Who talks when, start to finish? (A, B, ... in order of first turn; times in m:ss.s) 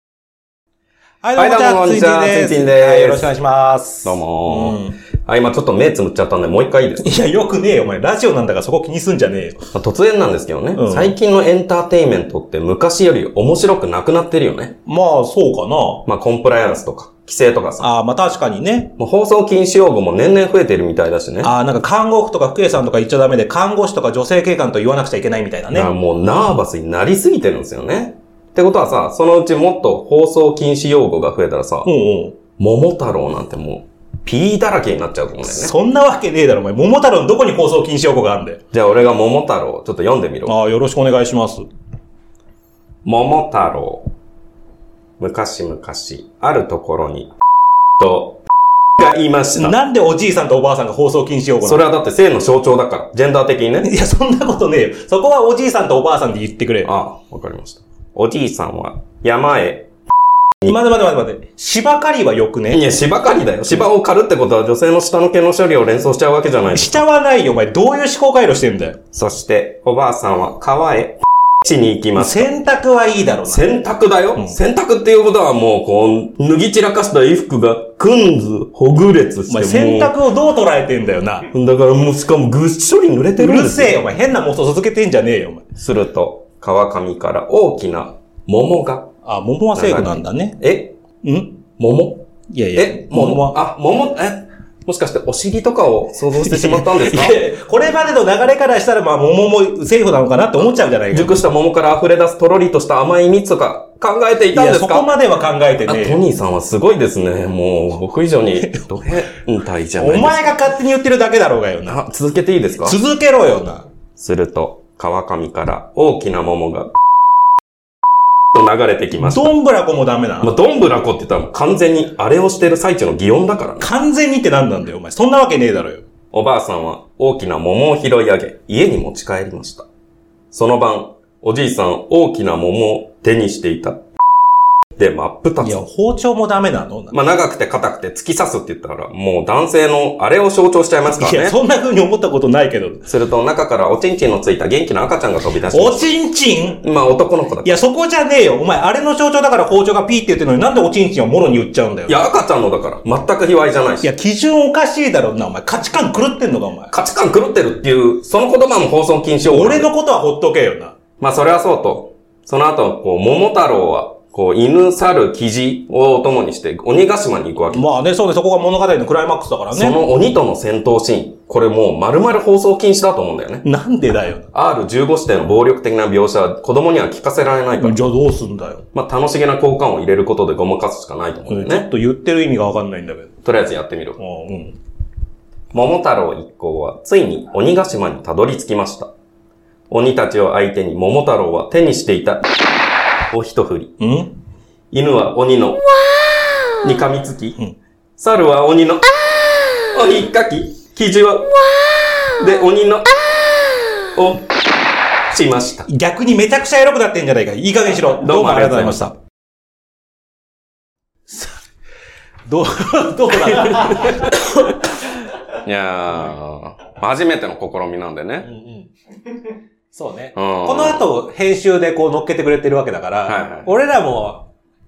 0:01.2-0:05.0 A
0:01.4-0:03.3 B
0:04.0-0:07.1 B
0:07.0-0:09.7 A
0:09.7-0:14.8 B
0:10.8-0:11.1 A
0:14.8-0:16.1 A
0:16.1-0:17.9 B
0:17.8-0:19.0 A
0:19.0-0:21.5 B
0:21.4-0:25.9 A
0:25.7-0:31.9 B
0:31.8-0:32.4 A
0:32.5-0:35.7 B
0:35.4-0:38.6 A
0:38.7-0:40.5 B
0:40.4-0:41.7 A
0:43.0-0:44.1 B
0:45.2-0:47.3 B
0:48.0-0:48.4 B
0:49.0-0:49.8 B
0:49.6-0:51.9 A
0:51.6-0:53.9 B
0:53.8-0:56.9 A
0:56.8-0:59.9 B
1:00.6-1:02.8 A
1:02.7-1:07.0 B
1:06.7-1:09.0 A
1:09.1-1:12.5 B
1:12.2-1:13.7 A
1:13.4-1:20.1 B
1:19.5-1:21.5 A
1:21.5-1:24.1 B
1:23.4-1:25.7 A
1:25.8-1:29.1 B
1:29.2-1:30.6 A
1:29.7-1:30.9 B
1:31.2-1:31.6 A
1:31.7-1:37.4 B
1:32.5-1:33.6 A
1:36.4-1:41.4 A
1:41.1-1:45.1 B
1:44.5-1:46.2 A
1:45.8-1:50.6 B
1:50.0-1:52.0 A
1:51.9-1:53.0 B
1:52.8-1:53.9 A
1:54.2-1:56.9 B
1:58.5-1:59.5 B
1:59.2-2:00.6 A
2:00.4-2:03.9 B
2:03.8-2:06.0 A
2:06.3-2:09.9 B
2:10.5-2:14.0 B
2:15.0-2:15.8 B
2:15.6-2:17.2 A
2:17.1-2:21.6 B
2:21.1-2:23.1 A
2:23.0-2:26.1 B
2:25.7-2:26.8 A
2:26.8-2:27.8 B
2:27.6-2:32.2 A
2:32.1-2:34.1 B
2:34.0-2:36.9 A
2:36.9-2:39.9 B
2:39.5-2:41.0 A
2:41.2-2:47.9 B
2:47.7-2:50.0 A
2:49.7-2:53.6 B
2:53.6-2:54.5 A
2:54.5-2:58.0 B
2:57.8-2:58.8 A
2:58.9-3:01.9 B
3:01.5-3:03.4 A
3:03.4-3:04.2 B
3:04.2-3:04.8 A
3:05.7-3:09.1 B
3:09.9-3:12.5 B
3:13.3-3:14.0 B
3:14.0-3:14.3 A
3:14.9-3:15.8 B
3:16.8-3:17.6 B
3:18.2-3:19.1 B
3:19.8-3:21.6 B
3:22.2-3:23.2 B
3:24.0-3:24.6 B
3:25.3-3:25.9 B
3:25.9-3:29.1 A
3:28.1-3:29.0 B
3:31.3-3:31.6 A
3:32.5-3:35.1 A
3:35.3-3:38.5 B
3:38.4-3:38.9 A
3:39.9-3:44.5 A
3:40.4-3:41.1 B
3:43.2-3:43.7 B